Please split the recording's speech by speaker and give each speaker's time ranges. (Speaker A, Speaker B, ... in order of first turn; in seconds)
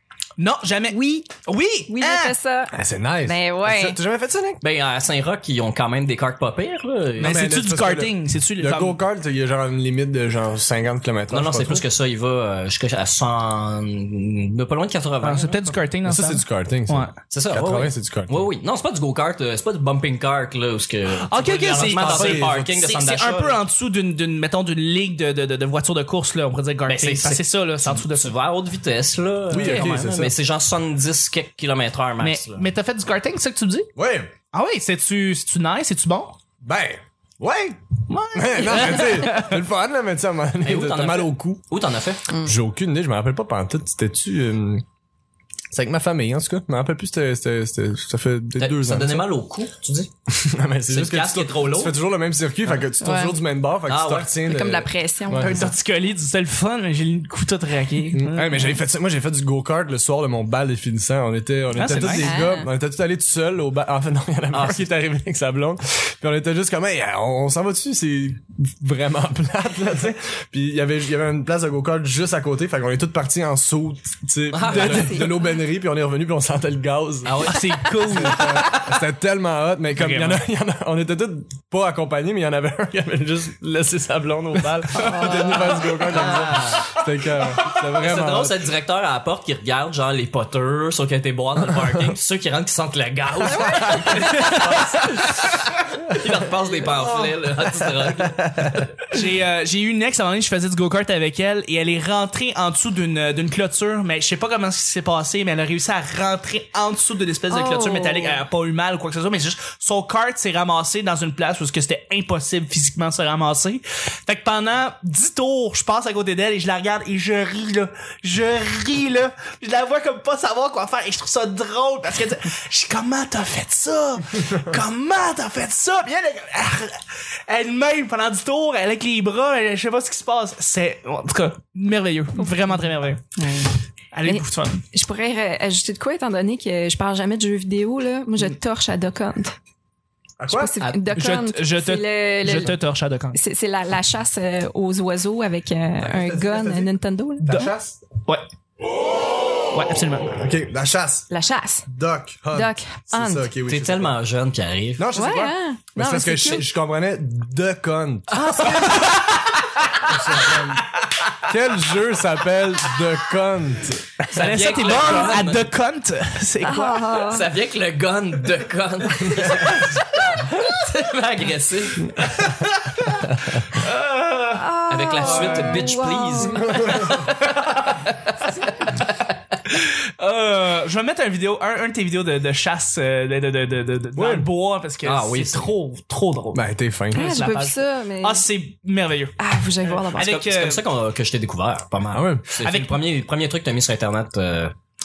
Speaker A: 0.4-2.3, 7.2-9.0, 15.2-17.1, 21.3-28.3, 29.5-29.9, 32.2-33.9, 34.5-36.4, 38.1-39.6, 55.4-58.8, 61.7-62.3, 77.4-78.8, 79.9-80.4, 94.0-94.9, 99.0-133.4, 134.1-134.8, 140.8-143.4, 147.4-147.7, 149.7-150.3, 158.4-160.7, 164.3-167.2, 173.8-174.6, 175.2-175.7, 179.7-190.8, 192.6-193.0
Speaker B: 0.9-1.3, 1.9-4.0, 53.0-53.4, 54.4-55.7, 61.9-62.7, 74.7-75.5, 85.0-86.2, 93.6-94.8, 107.5-108.4, 132.4-132.7, 133.3-133.7, 134.2-139.5, 140.5-142.8, 143.3-147.7, 151.3-151.8, 152.5-153.5, 155.2-156.7, 158.4-159.1, 164.9-165.3, 166.6-167.5, 169.2-170.1, 174.5-177.1, 178.5-178.8, 187.1-188.4, 189.4-190.3
Speaker C: 2.7-4.6, 7.2-11.8, 16.0-18.4, 21.9-22.7, 29.5-30.4, 34.0-34.3, 36.6-37.8, 38.3-41.6, 42.4-44.8, 45.7-49.3, 50.3-55.7, 58.1-88.7, 98.2-98.9, 140.4-140.8, 146.0-148.0, 150.4-151.3, 151.9-154.2, 155.0-159.1, 160.0-160.8, 161.4-164.3, 176.4-177.3, 184.1-184.5, 186.5-187.5, 192.1-192.5
Speaker D: 4.6-7.4, 11.3-15.7, 17.3-23.6, 26.9-32.7, 40.6-42.3, 48.6-50.1, 50.9-52.0, 53.9-54.4, 64.5-64.8, 74.5-75.3, 77.2-78.0, 85.9-98.7, 153.7-155.1, 164.3-165.7, 167.2-172.5, 174.9-177.3, 185.0-185.7, 190.1-194.7